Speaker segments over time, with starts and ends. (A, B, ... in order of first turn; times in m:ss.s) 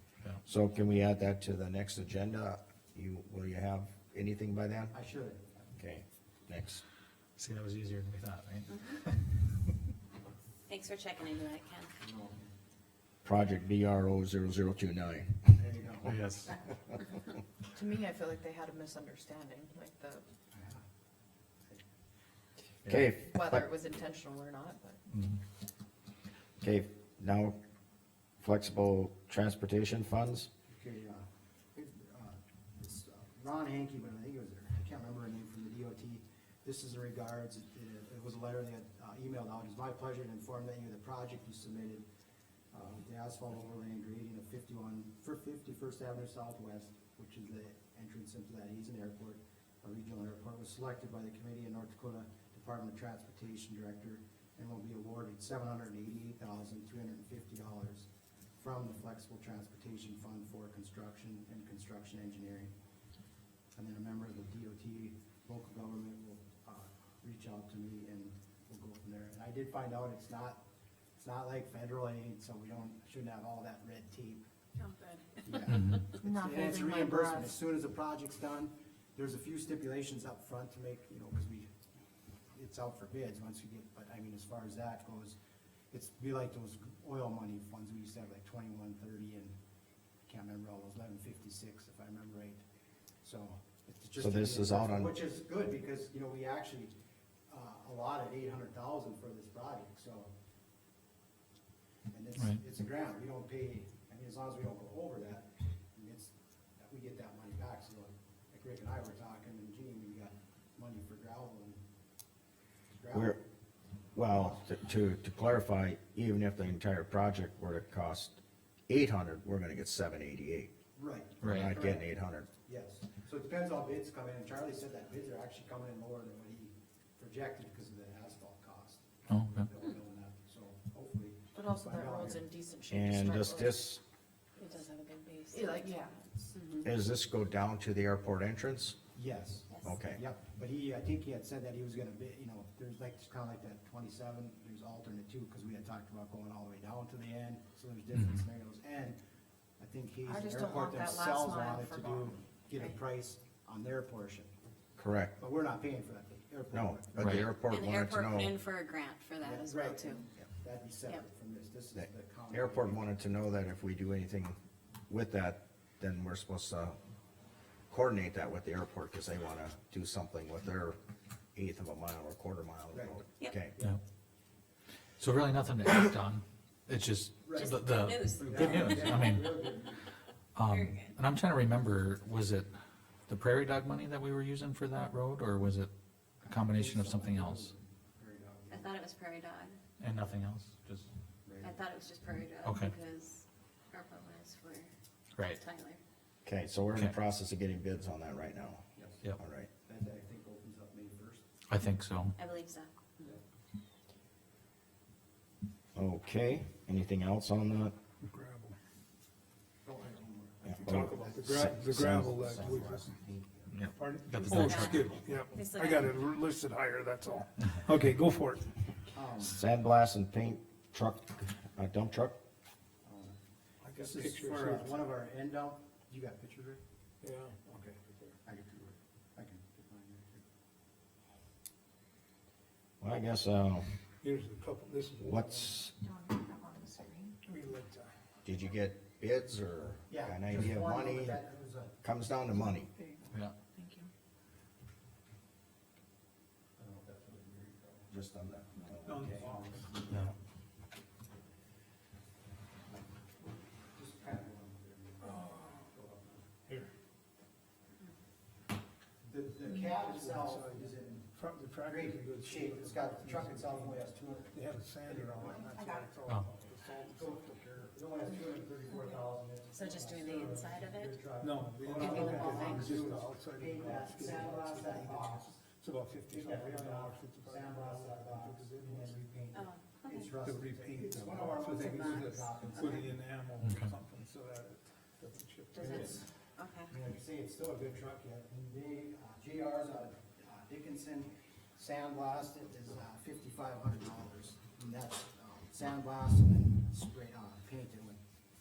0:00.4-0:04.9 A
0:04.9-0:05.7 B
0:05.8-0:06.8 A
0:07.4-0:09.2 C
0:08.7-0:09.0 D
0:10.7-0:11.9 D
0:12.0-0:12.4 B
0:13.2-0:15.6 A
0:15.6-0:16.1 B
0:16.0-0:16.5 C
0:17.7-0:20.2 E
0:20.5-0:20.8 B
0:22.9-0:23.6 A
0:23.1-0:25.0 E
0:25.1-0:25.4 C
0:26.6-0:27.5 A
0:28.4-0:30.5 A
0:30.7-0:42.0 B
0:42.7-1:02.7 B
1:03.8-1:10.6 B
1:11.2-1:14.4 B
1:14.8-1:15.2 D
1:15.4-1:21.7 B
1:16.2-1:17.6 E
1:22.5-1:25.4 B
1:25.9-1:29.5 B
1:30.3-1:32.6 B
1:33.2-1:36.9 B
1:34.2-1:35.2 A
1:37.5-1:40.3 B
1:42.1-1:51.8 B
1:53.0-1:53.4 B
1:54.1-2:00.7 A
1:54.3-1:54.6 B
2:01.0-2:02.1 B
2:01.4-2:01.7 C
2:01.4-2:02.5 A
2:02.6-2:12.4 B
2:09.3-2:09.7 C
2:11.5-2:13.8 E
2:12.9-2:14.0 A
2:14.6-2:16.5 E
2:15.4-2:15.8 D
2:16.5-2:16.8 D
2:16.8-2:19.0 A
2:19.1-2:29.2 B
2:19.8-2:20.2 A
2:29.8-2:34.5 B
2:30.2-2:32.9 E
2:35.0-2:35.4 A
2:35.4-2:37.5 B
2:36.7-2:38.6 A
2:37.2-2:37.5 C
2:37.7-2:40.2 D
2:39.4-2:43.0 B
2:41.9-2:44.6 A
2:45.1-2:47.0 A
2:47.9-2:51.0 A
2:51.5-2:53.8 A
2:52.9-2:53.2 B
2:55.2-2:59.5 C
2:57.4-2:57.8 B
2:57.5-2:59.2 D
2:58.4-3:00.0 B
3:00.5-3:02.7 C
3:00.7-3:01.1 D
3:03.3-3:05.9 C
3:06.4-3:08.9 B
3:06.4-3:07.7 C
3:08.7-3:09.8 D
3:10.0-3:11.0 C
3:11.4-3:11.8 B
3:11.6-3:14.9 D
3:12.6-3:12.9 C
3:15.4-3:16.0 D
3:16.4-3:18.8 A
3:19.0-3:19.2 B
3:19.4-3:19.7 A
3:19.8-3:21.4 B
3:21.7-3:22.4 C
3:22.4-3:23.0 D
3:25.9-3:27.9 A
3:28.2-3:28.8 F
3:29.8-3:31.8 B
3:30.7-3:32.7 A
3:30.8-3:33.1 F
3:32.5-3:33.6 B
3:33.7-3:35.2 C
3:33.9-3:38.6 F
3:34.4-3:36.2 D
3:39.1-3:39.6 B
3:39.4-3:42.4 A
3:43.0-3:43.4 B
3:43.8-3:45.1 F
3:44.0-3:46.8 B
3:47.2-3:48.3 F
3:47.7-3:50.4 B
3:53.0-3:53.9 A
3:54.2-3:55.8 F
3:55.2-3:55.9 A
3:56.0-3:57.3 E
3:57.4-3:58.1 F
3:58.4-4:01.4 A
4:00.1-4:02.0 B
4:02.0-4:02.9 A
4:03.7-4:04.1 E
4:06.8-4:08.1 B
4:08.1-4:09.5 A
4:09.0-4:10.0 F
4:09.2-4:10.2 B
4:13.9-4:16.4 B
4:15.3-4:15.8 F
4:19.2-4:25.7 B
4:19.7-4:27.9 F
4:27.0-4:35.5 B
4:29.7-4:31.1 D
4:31.4-4:39.2 F
4:32.0-4:32.9 D
4:36.3-4:43.2 B
4:39.5-4:40.3 D
4:40.4-4:46.2 F
4:41.7-4:42.8 D
4:43.6-4:43.9 C
4:45.7-4:46.9 D
4:45.8-4:46.2 B
4:46.9-4:58.2 B